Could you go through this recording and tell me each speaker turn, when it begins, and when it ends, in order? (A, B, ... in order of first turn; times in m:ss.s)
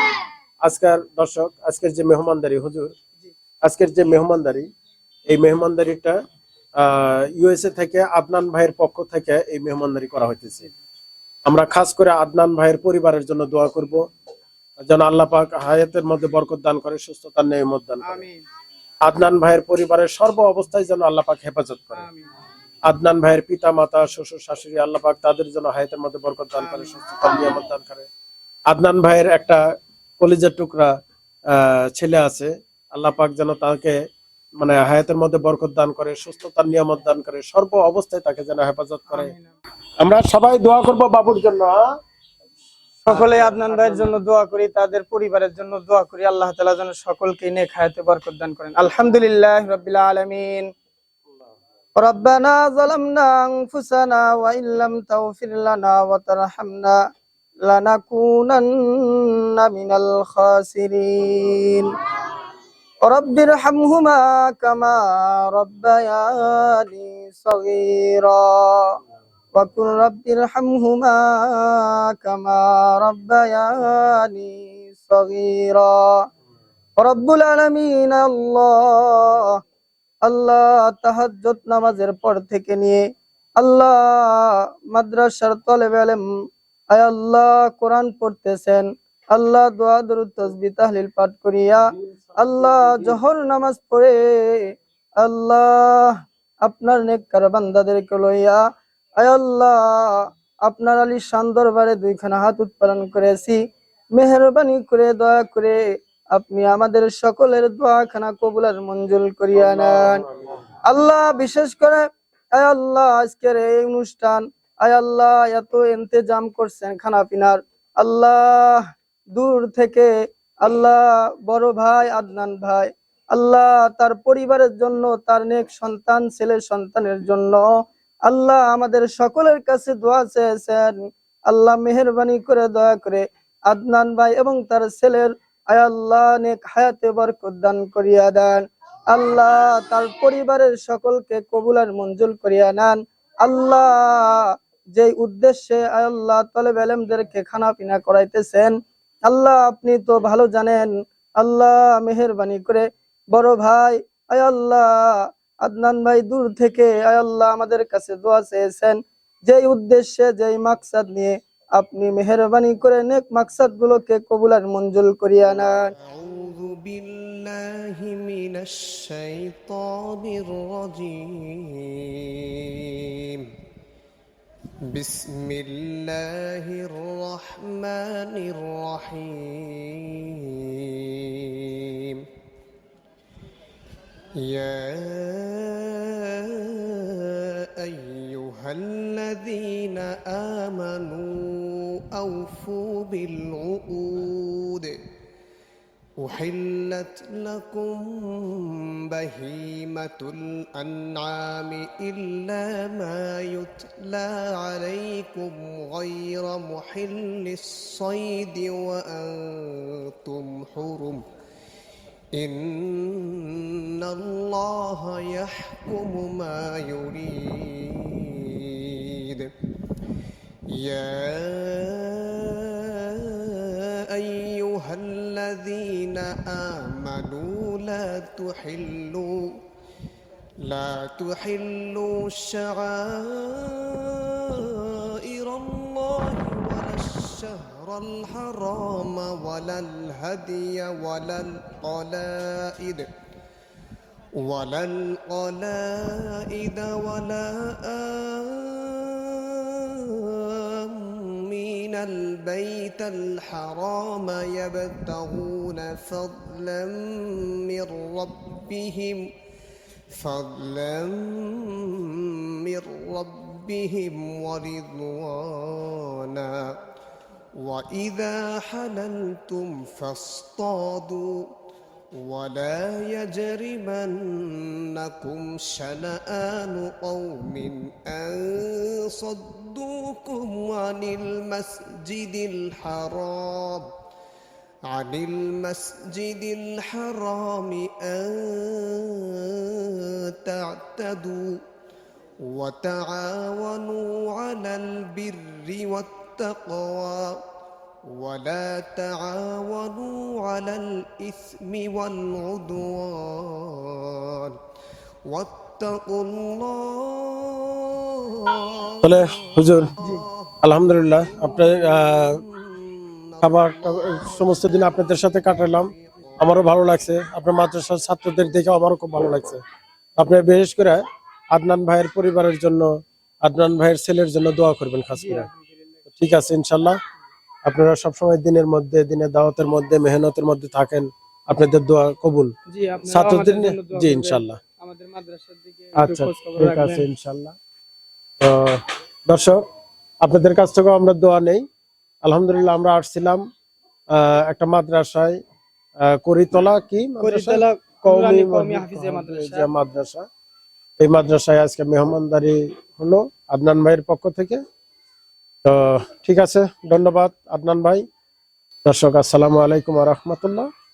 0:00.6-0:02.9 A
0:03.6-0:04.7 A
0:05.3-0:06.2 A
0:06.8-0:10.7 A
0:11.5-0:14.1 A
0:14.8-0:18.3 A
0:18.0-0:18.4 B
0:19.0-0:22.1 A
0:22.0-0:22.3 B
0:22.9-0:28.1 A
0:26.6-0:26.9 B
0:28.7-0:29.6 A
0:30.2-0:30.9 A
0:31.5-0:34.0 A
0:34.6-0:39.3 A
0:39.1-0:39.5 B
0:40.0-0:41.8 A
0:43.1-0:50.7 B
0:52.0-0:57.0 B
0:57.7-1:01.9 B
1:03.0-1:09.0 B
1:09.6-1:16.2 B
1:17.0-1:19.6 B
1:20.2-1:23.0 B
1:23.6-1:26.3 B
1:26.9-1:31.8 B
1:32.4-1:38.6 B
1:32.7-1:33.1 A
1:39.2-1:43.6 B
1:44.1-1:50.2 B
1:49.6-1:50.6 A
1:50.8-2:00.1 B
2:00.6-2:07.7 B
2:08.3-2:11.0 B
2:11.5-2:28.7 B
2:29.2-2:45.9 B
2:46.0-2:53.5 C
2:54.9-3:02.3 C
3:04.4-3:15.0 C
3:16.2-3:31.2 C
3:32.4-3:39.5 C
3:40.7-3:49.6 C
3:50.6-4:03.1 C
4:04.4-4:19.4 C
4:20.1-4:26.8 C
4:27.6-4:31.5 C
4:32.2-4:43.9 C
4:44.9-4:51.6 C
4:52.4-4:57.4 C
4:58.1-5:04.6 C
5:05.2-5:16.4 C
5:09.0-5:10.0 A
5:10.6-5:12.4 A
5:13.4-5:19.6 A
5:20.2-5:22.9 A
5:23.4-5:25.5 A
5:25.2-5:25.9 B
5:26.1-5:27.0 A
5:27.7-5:32.5 A
5:32.7-5:37.0 B
5:33.1-5:34.6 A
5:36.0-5:37.6 A
5:38.4-5:39.6 A
5:40.2-5:41.6 A
5:42.2-5:43.4 A
5:44.1-5:45.4 A
5:46.1-5:50.3 A
5:47.2-5:49.7 B
5:51.0-5:54.6 A
5:55.6-5:58.0 A
5:58.8-6:00.7 A